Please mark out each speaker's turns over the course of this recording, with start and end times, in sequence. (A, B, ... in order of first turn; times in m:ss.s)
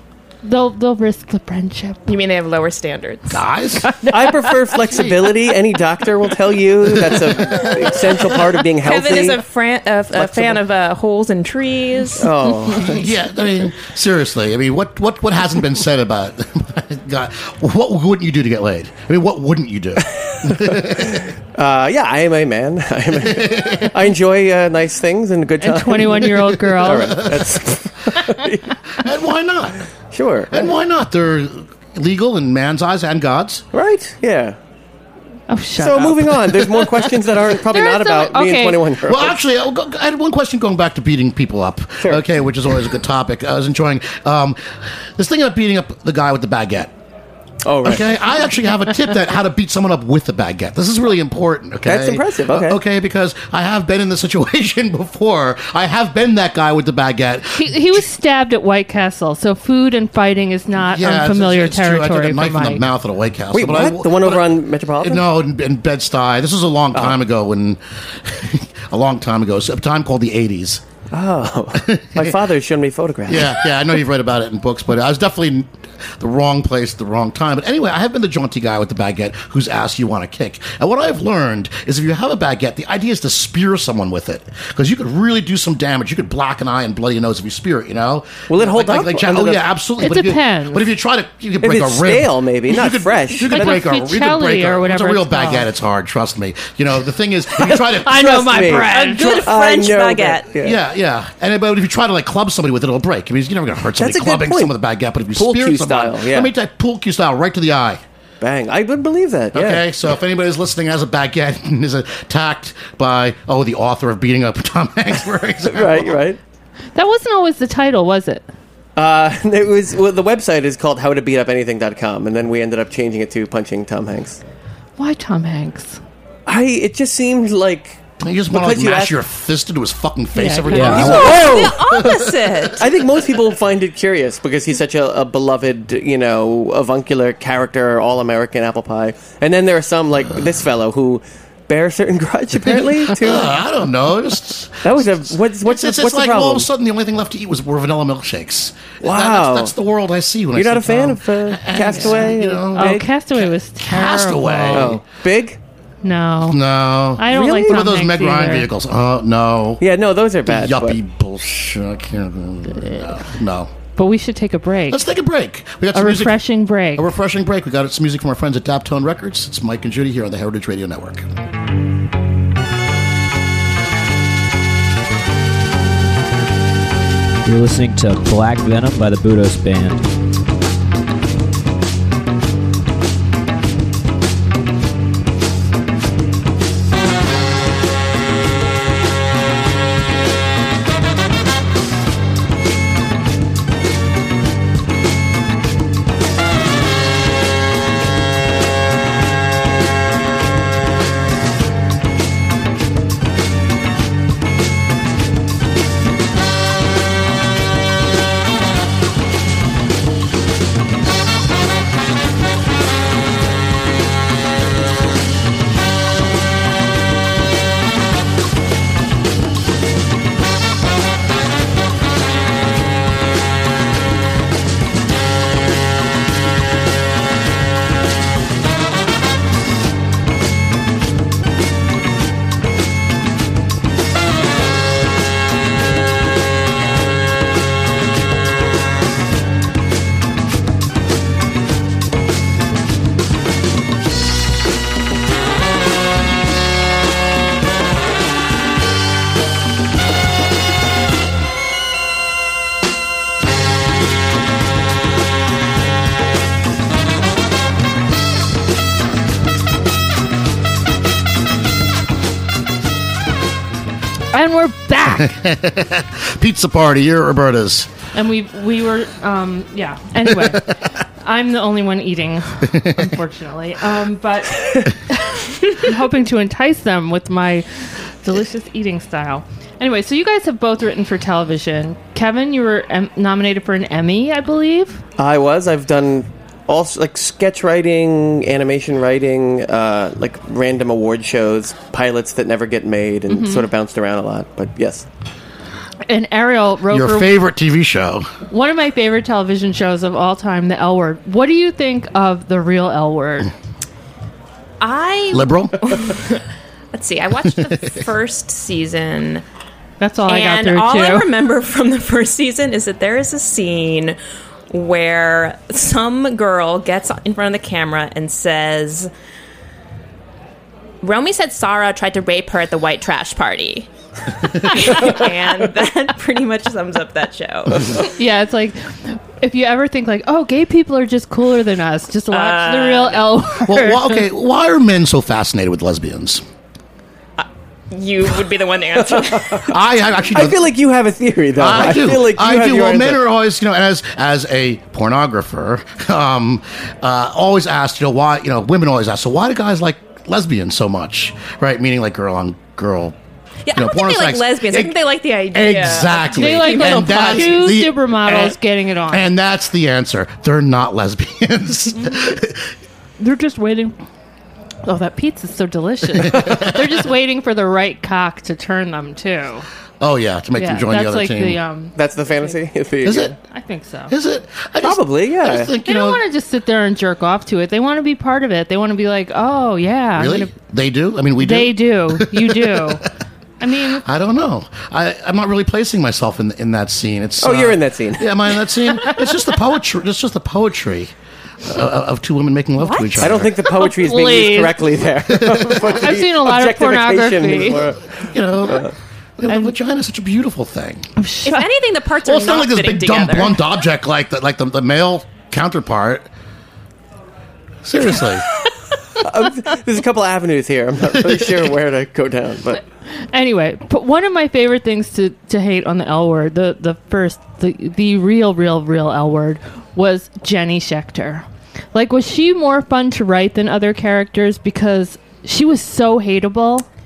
0:00.4-0:02.1 A
0:02.1-0:03.4 B
0:03.3-0:05.2 C
0:04.0-0:09.4 D
0:06.8-0:07.8 C
0:07.9-0:12.9 B
0:10.1-0:10.6 D
0:12.2-0:13.0 D
0:12.8-0:21.2 C
0:20.1-0:28.7 D
0:23.3-0:24.0 C
0:25.6-0:27.2 A
0:27.0-0:27.6 C
0:29.0-0:29.8 C
0:30.1-0:30.7 D
0:30.5-0:33.6 C
0:33.7-0:34.6 D
0:35.5-0:37.1 A
0:35.8-0:39.4 D
0:37.6-0:38.8 A
0:39.0-0:46.9 C
0:47.6-0:48.1 D
0:47.8-0:58.0 C
0:51.8-0:52.8 D
0:57.5-1:02.9 A
1:00.8-1:10.8 C
1:03.5-1:05.2 D
1:11.1-1:13.7 D
1:11.8-1:12.4 C
1:13.3-1:38.7 C
1:28.5-1:29.7 D
1:30.0-1:30.9 A
1:31.6-1:33.7 D
1:33.5-1:35.7 A
1:37.7-1:39.5 A
1:38.1-1:40.8 D
1:38.9-1:40.5 B
1:40.6-1:48.0 C
1:44.0-1:44.7 D
1:45.4-1:46.5 D
1:48.4-1:49.8 D
1:49.5-1:56.2 C
1:55.7-1:56.4 D
1:57.0-1:58.5 A
1:59.0-2:04.4 D
2:05.0-2:06.0 A
2:06.5-2:08.0 D
2:08.2-2:12.8 C
2:08.5-2:09.2 D
2:10.4-2:11.2 A
2:10.4-2:12.0 D
2:10.8-2:12.9 B
2:12.8-2:23.6 D
2:22.7-2:35.0 C
2:24.8-2:26.7 D
2:29.0-2:29.7 D
2:30.5-2:33.1 D
2:31.9-2:34.9 A
2:34.7-2:35.6 D
2:36.0-2:36.6 A
2:36.5-2:39.8 C
2:37.2-2:38.7 A
2:37.3-2:37.8 D
2:39.8-2:41.0 D
2:40.5-2:43.7 C
2:44.0-2:45.0 A
2:44.9-2:51.3 C
2:45.9-2:47.1 A
2:57.4-3:00.0 E
4:24.3-4:25.4 A
4:25.1-4:27.9 C
4:28.1-4:30.7 A
4:30.2-4:30.6 C
4:31.2-4:37.6 A
4:32.7-4:33.1 C
4:38.2-4:45.0 A
4:45.2-4:55.1 D
4:53.3-4:53.7 A
4:56.1-4:57.4 A
4:56.9-4:58.3 C
4:58.5-5:03.5 A
5:04.8-5:09.4 B
5:05.3-5:05.7 C
5:07.4-5:08.0 C
5:10.0-5:11.3 A
5:10.2-5:14.2 B
5:14.7-5:19.1 B
5:21.0-5:23.9 B
5:24.4-5:28.1 B
5:28.2-5:34.2 A
5:32.3-5:33.4 B
5:33.6-5:36.4 C
5:37.4-5:39.7 B
5:39.7-5:40.7 C
5:40.3-5:43.2 D
5:41.6-5:53.2 C
5:53.7-5:57.8 B
5:53.8-5:55.0 C
5:55.5-5:58.6 C
5:56.3-5:59.2 A
5:59.1-6:02.7 C
6:03.2-6:04.0 A
6:04.8-6:09.6 A
6:06.2-6:06.7 C
6:10.0-6:11.6 C
6:10.6-6:12.6 A
6:12.0-6:13.4 D
6:13.0-6:13.3 C
6:13.4-6:14.1 A
6:14.1-6:16.2 C
6:14.8-6:15.7 D
6:15.8-6:20.5 A
6:20.2-6:23.0 C
6:21.4-6:23.0 A
6:23.6-6:24.0 A
6:24.0-6:31.1 C
6:27.4-6:28.3 D
6:31.7-6:33.6 C
6:32.8-6:33.4 B
6:33.2-6:38.9 D
6:33.6-6:34.8 A
6:35.3-6:36.0 C
6:36.0-6:37.9 A
6:38.2-6:41.1 C
6:39.5-6:39.7 A
6:41.2-6:41.7 A
6:41.4-6:43.6 B
6:42.2-6:46.3 C
6:47.8-6:48.4 C
6:49.2-6:52.8 D
6:51.3-6:51.6 C
6:53.3-7:06.9 A